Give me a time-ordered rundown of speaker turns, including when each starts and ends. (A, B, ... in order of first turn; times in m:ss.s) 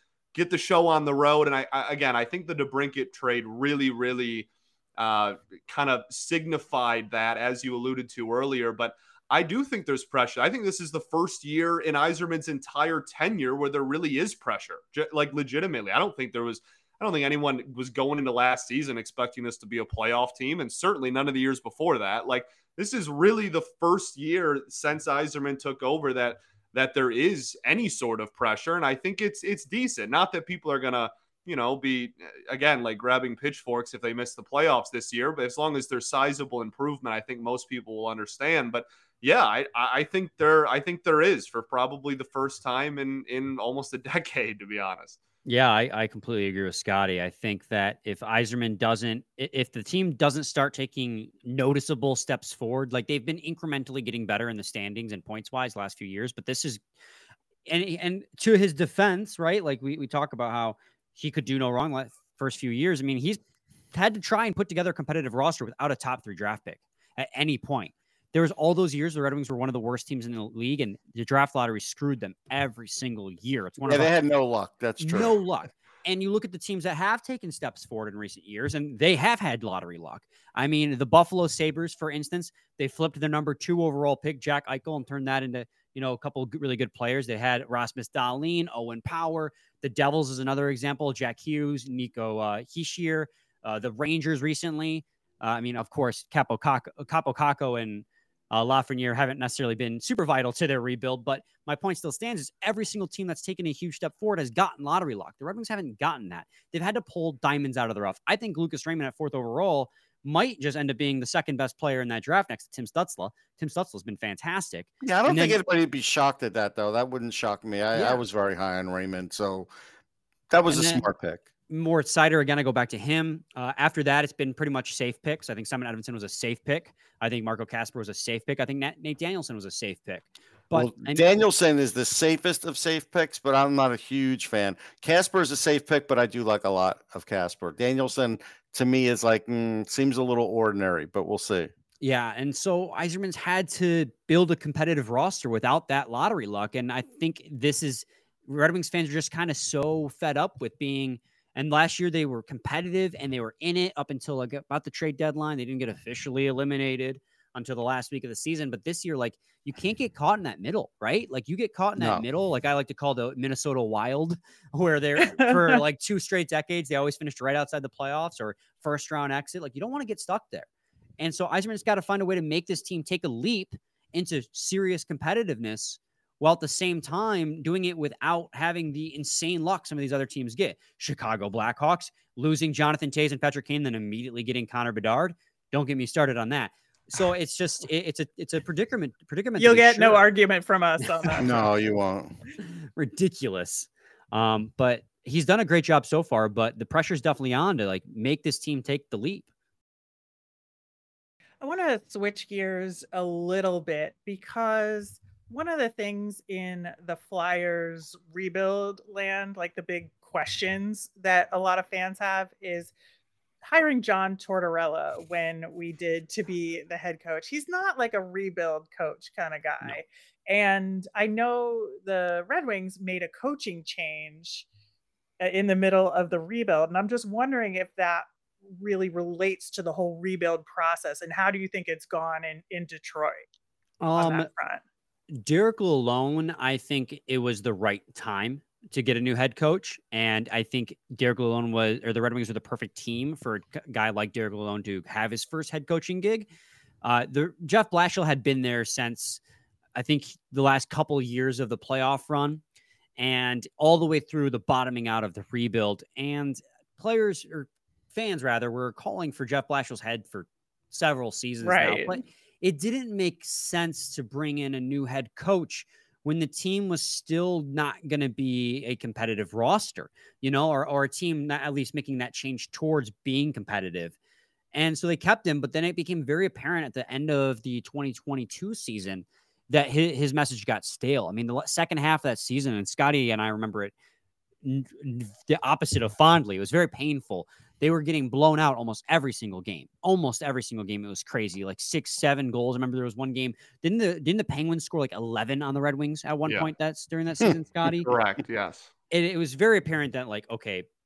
0:00.3-0:45.2 A
0:45.4-0:56.8 B
0:57.7-1:03.4 B
1:03.9-1:14.1 B
1:13.9-1:15.4 C
1:15.0-1:55.6 B
1:55.0-1:59.7 C
1:57.9-1:58.2 B
2:00.5-2:01.4 C
2:00.7-2:01.0 B
2:01.7-2:11.2 B
2:10.7-2:21.7 C
2:22.0-2:50.7 B
2:42.0-2:42.2 C
2:45.2-2:45.8 D
2:51.2-3:10.3 B
3:09.6-3:11.5 D
3:11.2-3:11.6 B
3:11.4-3:12.3 C
3:13.0-3:19.5 B
3:21.6-3:32.9 D
3:33.6-3:44.7 D
3:45.4-3:53.5 D
3:54.0-3:54.5 B
3:54.2-3:54.8 D
3:55.3-4:06.5 B
4:07.0-4:09.4 B
4:10.0-4:12.6 B
4:13.2-4:34.2 B
4:21.6-4:22.2 D
4:34.7-4:43.9 B
4:44.6-4:58.1 B
4:58.0-4:58.9 A
4:59.1-5:00.9 B